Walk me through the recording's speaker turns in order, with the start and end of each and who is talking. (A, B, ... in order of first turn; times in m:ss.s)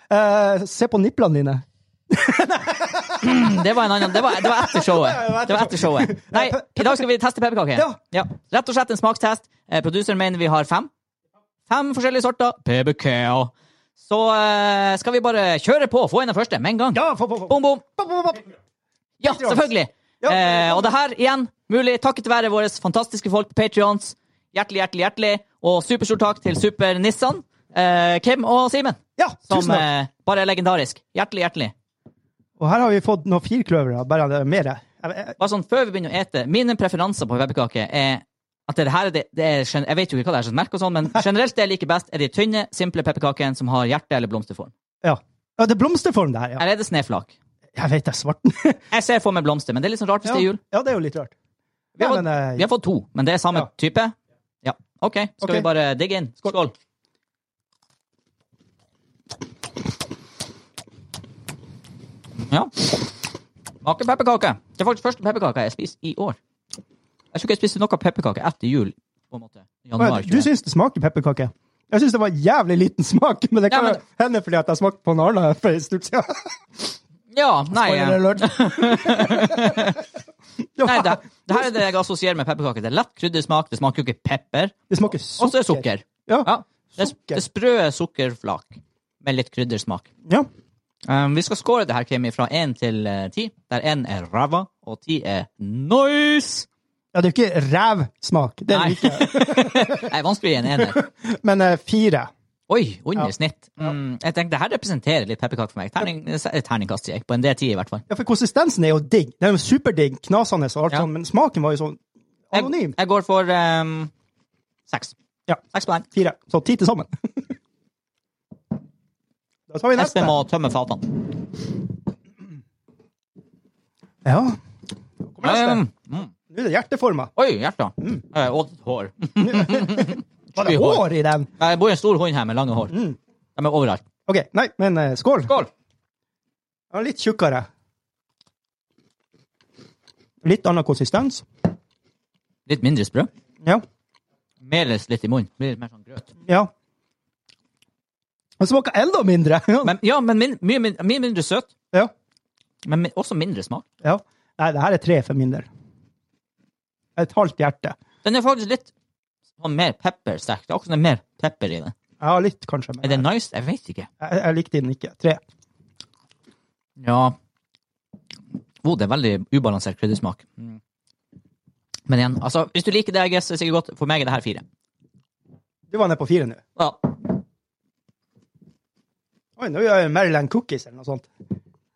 0:00.1-0:07.1 A
0:03.2-0:10.9 B
0:11.7-0:17.8 B
0:16.9-0:18.5 A
0:19.2-0:29.0 B
0:19.2-0:19.7 A
0:20.2-0:21.0 A
0:29.2-0:29.8 A
0:29.5-0:31.7 B
0:32.6-0:35.4 A
0:35.4-0:44.7 B
0:45.0-0:46.6 A
0:46.6-0:47.3 B
0:47.8-0:48.8 A
0:48.9-0:50.6 B
0:50.2-0:51.3 A
0:52.0-0:52.7 A
0:52.0-0:56.7 B
0:55.4-0:55.7 A
1:02.4-1:03.1 B
1:03.8-1:06.4 B
1:07.3-1:10.5 B
1:10.0-1:16.9 A
1:13.7-1:14.0 B
1:17.3-1:20.0 B
1:17.7-1:20.0 A
1:20.8-1:21.8 A
1:20.8-1:30.1 B
1:24.9-1:27.4 A
1:31.1-1:36.7 B
1:37.1-1:40.1 A
1:38.7-1:41.0 B
1:40.7-1:42.3 A
1:42.7-1:48.0 B
1:43.2-1:43.9 A
1:48.1-1:53.0 A
1:52.5-1:54.1 B
1:54.9-1:55.2 B
1:55.5-1:57.1 A
1:55.7-1:56.1 B
1:59.7-2:00.4 A
1:59.9-2:01.5 B
2:04.2-2:04.6 A
2:05.2-2:05.8 A
2:05.4-2:06.3 B
2:06.5-2:07.3 A
2:07.4-2:11.1 B
2:09.4-2:11.5 A
2:11.6-2:12.9 B
2:12.9-2:13.2 A
2:13.6-2:14.0 B
2:14.3-2:15.6 A
2:16.9-2:17.7 A
2:20.4-2:21.4 A
2:22.7-2:23.3 B
2:24.6-2:26.3 B
2:26.5-2:26.7 A
2:28.6-2:29.9 A
2:29.8-2:31.7 B
2:32.8-2:33.8 B
2:34.0-2:35.7 A
2:37.2-2:37.9 A
2:38.2-2:38.9 B
2:39.6-2:41.9 B
2:42.2-2:43.3 A
2:43.0-2:44.1 B
2:44.2-2:45.4 A
2:47.0-2:47.3 B
2:48.8-2:50.8 B
2:52.1-2:54.6 B
2:55.9-2:56.6 A
2:56.8-2:57.2 B
2:59.6-3:01.3 A